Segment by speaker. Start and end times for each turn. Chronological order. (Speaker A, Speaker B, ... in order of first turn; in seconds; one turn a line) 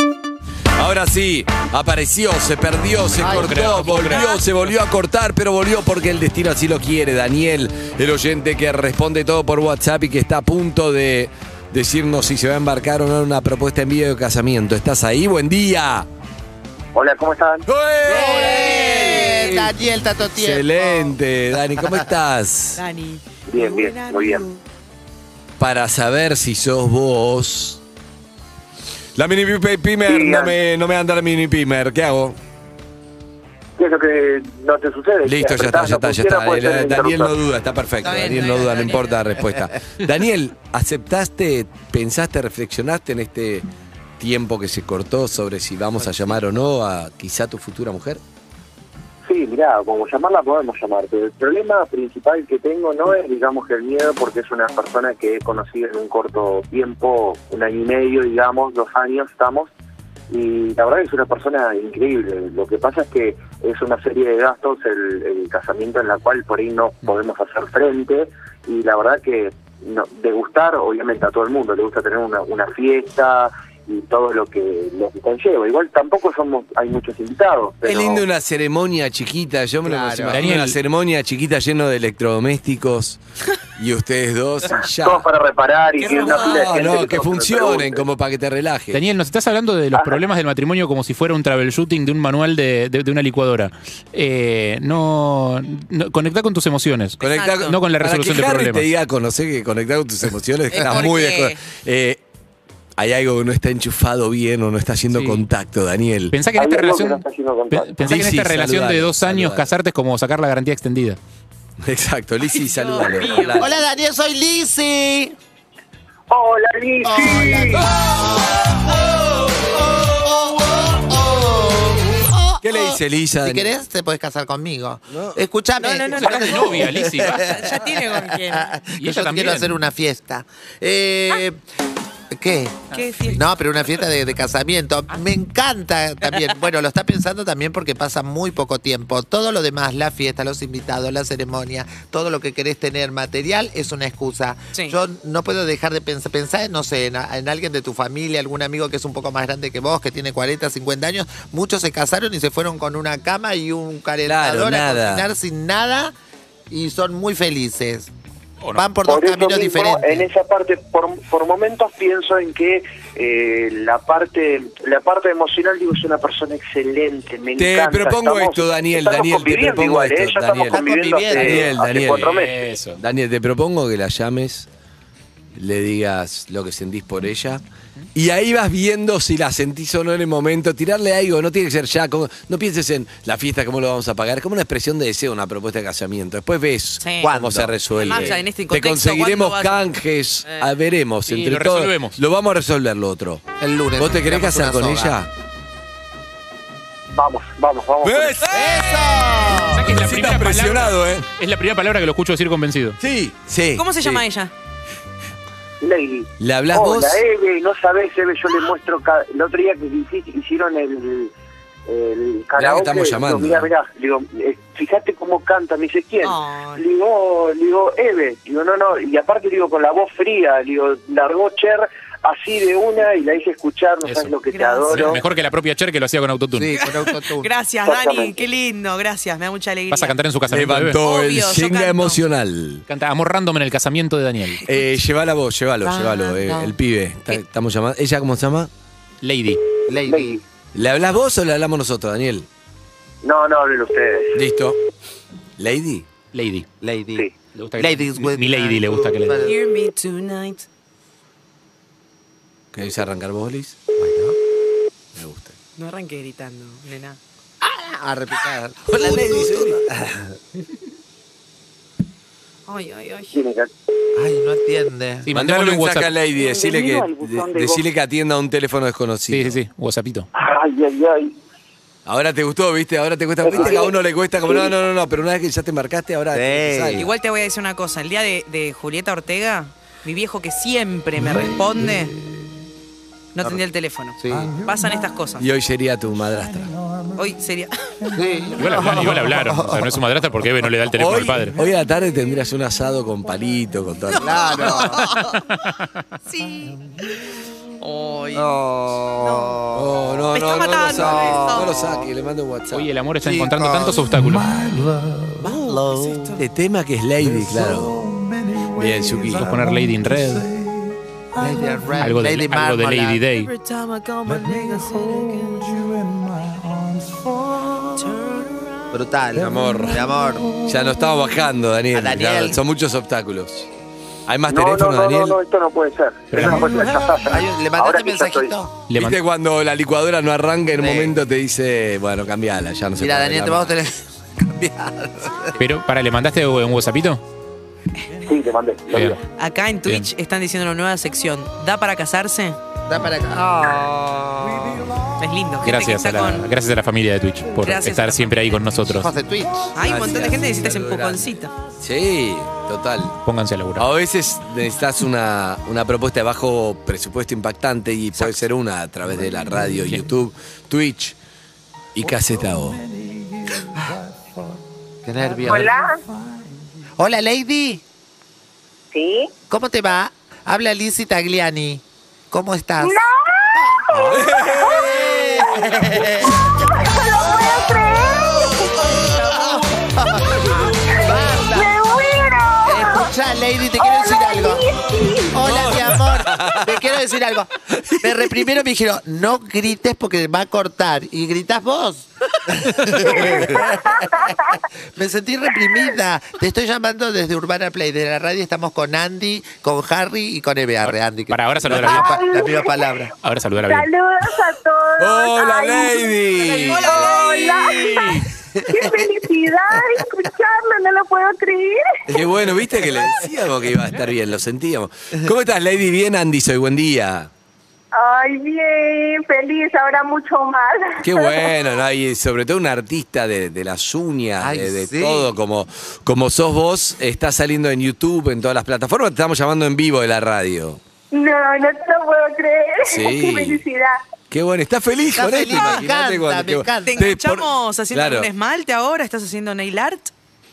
Speaker A: 0.8-16.1
Speaker B: 3.2-3.8
Speaker C: 3.2-4.3
Speaker D: 3.9-4.3
Speaker E: 16.9-17.6
Speaker A: 17.7-19.7
Speaker B: 18.0-21.2
Speaker D: 18.4-19.4
Speaker A: 20.2-22.8
Speaker D: 22.8-24.6
Speaker E: 23.5-24.4
Speaker A: 25.6-27.8
Speaker A: 29.1-32.4
Speaker E: 30.0-30.5
Speaker E: 33.8-37.4
Speaker A: 35.2-43.6
Speaker D: 38.0-39.4
Speaker A: 44.2-48.2
Speaker B: 46.1-46.4
Speaker E: 49.2-59.7
Speaker E: 60.3-78.2
Speaker A: 77.8-83.2
Speaker B: 79.8-80.4
Speaker C: 80.3-80.8
Speaker A: 83.8-85.3
Speaker E: 85.0-88.0
Speaker D: 86.0-86.5
Speaker A: 86.0-89.0
Speaker C: 88.9-98.9
Speaker E: 90.0-90.2
Speaker A: 97.2-102.2
Speaker D: 97.3-97.8
Speaker D: 100.7-101.6
Speaker A: 103.0-106.3
Speaker C: 105.1-105.4
Speaker C: 106.3-111.2
Speaker E: 106.5-108.1
Speaker A: 108.0-109.7
Speaker A: 111.8-113.7
Speaker D: 112.5-113.7
Speaker B: 113.6-115.3
Speaker E: 116.3-117.9
Speaker B: 117.0-131.6
Speaker A: 122.6-123.7
Speaker A: 125.1-125.4
Speaker D: 125.8-128.7
Speaker C: 126.1-127.6
Speaker C: 129.0-129.7
Speaker B: 132.3-156.1
Speaker D: 132.9-133.4
Speaker C: 132.9-133.4
Speaker A: 154.2-155.3
Speaker B: 156.7-158.1
Speaker B: 158.7-160.2
Speaker E: 159.1-172.5
Speaker A: 167.6-172.4
Speaker B: 170.7-171.7
Speaker C: 172.0-173.0
Speaker A: 173.0-174.7
Speaker A: 175.5-177.6
Speaker A: 178.1-193.4
Speaker D: 187.0-187.3
Speaker B: 187.2-188.4
Speaker D: 188.0-189.9
Speaker D: 190.4-190.7
Speaker C: 191.3-192.2
Speaker B: 193.6-195.2
Speaker A: 194.0-195.3
Speaker E: 197.1-198.4
Speaker A: 198.0-198.6
Speaker D: 198.4-199.2
Speaker B: 198.5-199.9
Speaker C: 199.7-203.0
Speaker A: 199.8-201.3
Speaker A: 203.0-204.2
Speaker D: 203.8-204.5
Speaker E: 205.8-211.3
Speaker A: 206.4-207.2
Speaker E: 211.9-225.2
Speaker A: 212.6-213.7
Speaker D: 216.2-216.8
Speaker C: 224.0-224.3
Speaker D: 224.5-225.2
Speaker C: 224.9-226.8
Speaker B: 226.5-227.5
Speaker D: 226.8-230.2
Speaker E: 227.8-228.3
Speaker C: 229.9-231.0
Speaker A: 230.4-232.8
Speaker D: 231.0-232.2
Speaker C: 232.9-234.6
Speaker A: 234.6-238.7
Speaker B: 235.8-236.7
Speaker C: 239.2-239.6
Speaker B: 239.9-240.4
Speaker E: 240.1-240.4
Speaker A: 240.7-242.5
Speaker E: 243.2-244.4
Speaker A: 244.3-244.8
Speaker A: 245.6-246.1
Speaker C: 246.3-246.7
Speaker B: 246.8-249.6
Speaker C: 247.6-249.4
Speaker D: 249.4-250.7
Speaker A: 252.7-253.8
Speaker B: 254.0-254.4
Speaker A: 255.2-255.6
Speaker D: 255.8-257.2
Speaker B: 257.6-260.3
Speaker A: 258.8-259.8
Speaker D: 262.7-263.4
Speaker E: 263.3-263.7
Speaker B: 264.1-265.3
Speaker C: 265.2-266.1
Speaker A: 265.3-269.6
Speaker C: 269.3-270.3
Speaker E: 270.3-271.4
Speaker A: 272.1-277.1
Speaker E: 273.4-273.9
Speaker B: 276.3-277.1
Speaker D: 277.0-282.2
Speaker D: 283.3-285.5
Speaker B: 284.2-284.6
Speaker A: 285.4-286.7
Speaker D: 287.1-288.2
Speaker B: 288.1-290.0
Speaker C: 288.6-291.6
Speaker A: 290.9-294.6
Speaker B: 294.1-295.1
Speaker D: 294.2-295.4
Speaker C: 295.4-295.9
Speaker D: 296.3-298.5
Speaker B: 298.3-300.1
Speaker D: 299.2-299.6
Speaker A: 299.7-302.9
Speaker D: 300.3-301.8
Speaker B: 300.9-302.1
Speaker C: 302.7-304.5
Speaker B: 303.2-304.1
Speaker B: 304.6-306.4
Speaker D: 305.4-306.4
Speaker A: 306.4-308.0
Speaker A: 308.6-309.6
Speaker C: 309.3-310.5
Speaker B: 311.3-313.2
Speaker C: 312.0-313.5
Speaker D: 313.3-315.9
Speaker D: 317.9-319.0
Speaker B: 318.9-320.6
Speaker A: 319.4-320.0
Speaker A: 320.6-323.7
Speaker B: 321.9-322.6
Speaker A: 324.3-325.4
Speaker E: 324.5-328.5
Speaker C: 326.3-326.6
Speaker B: 327.1-328.8
Speaker C: 328.9-329.2
Speaker A: 328.9-333.7
Speaker B: 333.0-335.6
Speaker C: 335.6-337.2
Speaker E: 338.2-339.2
Speaker C: 338.9-339.2
Speaker D: 339.3-342.6
Speaker B: 342.9-344.9
Speaker D: 345.2-346.5
Speaker C: 345.6-349.1
Speaker D: 347.6-348.7
Speaker B: 348.9-350.4
Speaker D: 349.7-351.5
Speaker A: 349.8-351.2
Speaker A: 351.8-353.1
Speaker C: 353.2-353.9
Speaker A: 353.8-361.1
Speaker C: 358.1-358.4
Speaker A: 361.9-362.9
Speaker B: 365.0-365.7
Speaker F: 365.4-366.0
Speaker B: 367.0-367.8
Speaker F: 368.9-369.3
Speaker B: 369.5-373.0
Speaker F: 372.8-379.5
Speaker B: 373.6-376.5
Speaker A: 373.9-374.9
Speaker B: 379.1-381.7
Speaker F: 380.2-383.1
Speaker B: 382.6-384.6
Speaker F: 383.8-385.6
Speaker B: 385.3-403.1
Speaker A: 385.4-386.6
Speaker F: 393.0-394.5
Speaker C: 400.9-402.2
Speaker F: 401.7-402.7
Speaker C: 403.2-403.9
Speaker F: 403.6-411.9
Speaker A: 405.0-407.7
Speaker D: 406.5-407.9
Speaker C: 407.9-408.2
Speaker B: 408.5-409.1
Speaker A: 412.1-417.3
Speaker F: 417.9-421.6
Speaker A: 421.0-430.8
Speaker B: 424.4-425.3
Speaker F: 431.1-434.0
Speaker A: 432.9-433.6
Speaker A: 434.3-438.3
Speaker B: 435.1-437.1
Speaker D: 436.8-440.1